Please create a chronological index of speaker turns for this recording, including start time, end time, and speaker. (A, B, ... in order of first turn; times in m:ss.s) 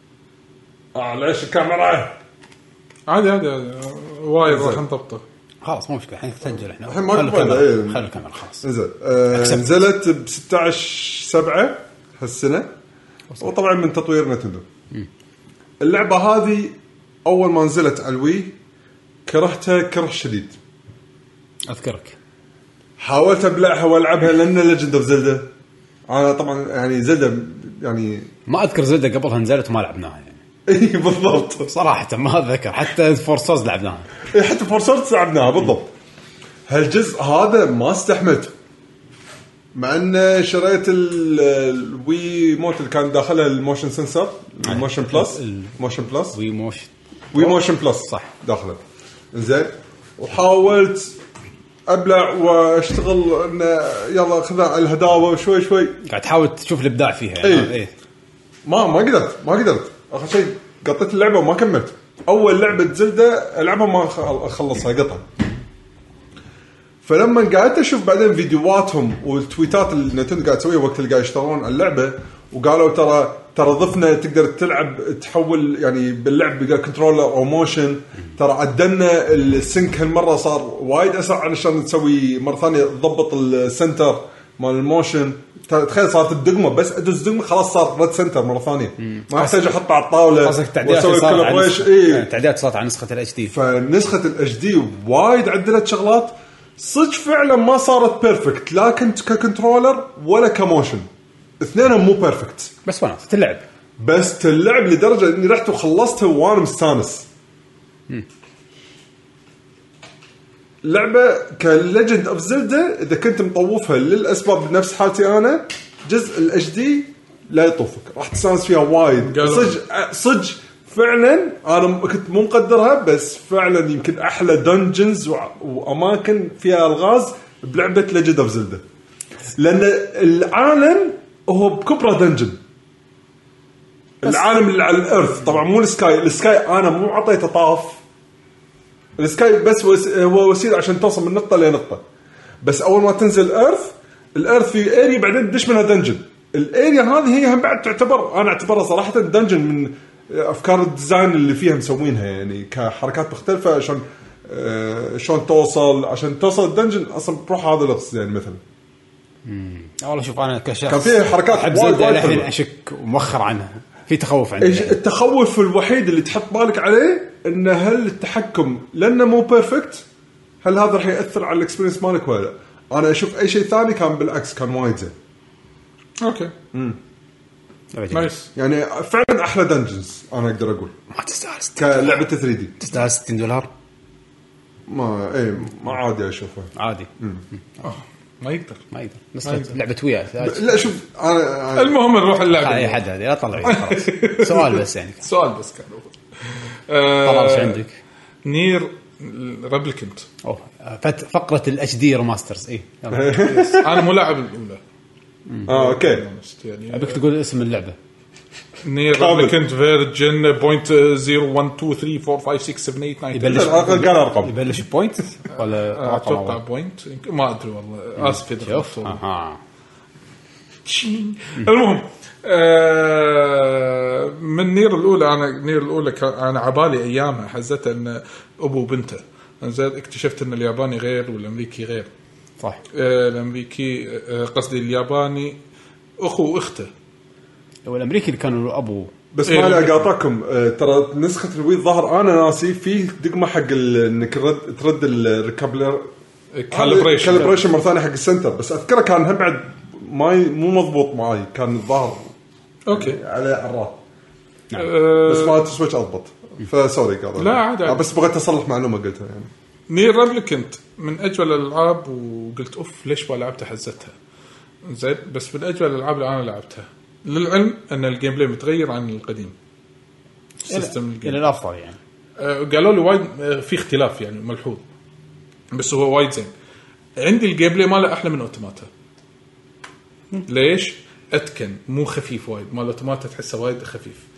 0:00.9-0:02.2 A
0:03.1-0:05.2 B
0:04.5-0:04.8 A
0:05.6-0:08.7 C
0:06.8-0:08.0 A
0:08.6-0:12.7 A
0:09.3-0:09.7 C
0:13.4-0:14.6 A
0:15.8-0:18.6 A
0:19.3-0:20.6 A
0:21.7-0:22.2 C
0:23.0-0:25.5 A
0:26.1-0:28.3 A
0:28.5-0:30.4 C
0:30.7-0:31.7 A
0:31.6-0:34.1 C
0:34.3-0:35.9 A
0:36.7-0:38.5 A
0:39.8-0:46.4 A
0:44.6-0:45.8 C
0:46.3-0:48.3 C
0:47.3-0:48.8 A
0:49.3-0:51.2 A
0:51.9-0:56.0 A
0:56.1-0:57.9 C
0:57.4-0:57.7 A
0:58.6-1:05.2 A
1:07.0-1:32.3 A
1:29.1-1:29.7 C
1:30.4-1:33.5 C
1:33.5-1:41.1 A
1:41.6-1:42.7 A
1:42.9-1:43.6 C
1:44.0-1:47.3 A
1:50.8-2:08.8 A
1:59.2-1:59.8 B
2:09.6-2:12.6 A
2:14.2-2:18.0 A
2:19.2-2:22.0 A
2:22.6-2:38.6 A
2:39.5-2:45.0 C
2:40.9-2:42.5 A
2:44.6-2:50.0 A
2:50.6-2:55.1 A
2:56.2-2:56.5 B
2:56.7-2:57.0 A
2:57.9-2:58.3 C
2:58.1-2:58.5 B
2:58.6-3:00.9 A
3:01.1-3:02.1 C
3:01.8-3:02.8 A
3:02.8-3:03.7 C
3:04.9-3:07.4 A
3:06.8-3:07.6 C
3:07.8-3:08.8 B
3:08.9-3:10.9 C
3:09.4-3:09.8 B
3:10.4-3:12.0 A
3:11.7-3:13.0 B
3:12.6-3:15.3 C
3:13.6-3:17.8 B
3:17.2-3:18.0 C
3:18.4-3:20.3 B
3:20.4-3:23.5 C
3:23.1-3:24.1 A
3:23.4-3:24.8 B
3:25.6-3:27.2 B
3:25.7-3:26.2 A
3:26.9-3:28.0 C
3:28.8-3:34.1 B
3:29.1-3:29.6 A
3:33.3-3:36.6 C
3:33.5-3:34.6 A
3:35.6-3:39.2 B
3:38.2-3:39.6 C
3:40.8-3:52.1 B
3:52.9-3:55.6 B
3:56.2-3:56.9 B
3:57.9-3:59.1 C
3:59.3-4:06.1 A
3:59.4-4:00.0 B
4:06.5-4:07.5 B
4:06.7-4:12.3 A
4:12.9-4:13.2 B
4:12.9-4:14.0 A
4:14.8-4:15.6 B
4:15.1-4:19.5 A
4:17.4-4:18.0 B
4:19.9-4:24.1 B
4:24.8-4:29.6 B
4:30.6-4:31.4 B
4:30.7-4:32.0 C
4:32.4-4:34.8 B
4:35.7-4:36.5 B
4:37.2-4:38.9 B
4:40.5-4:44.2 B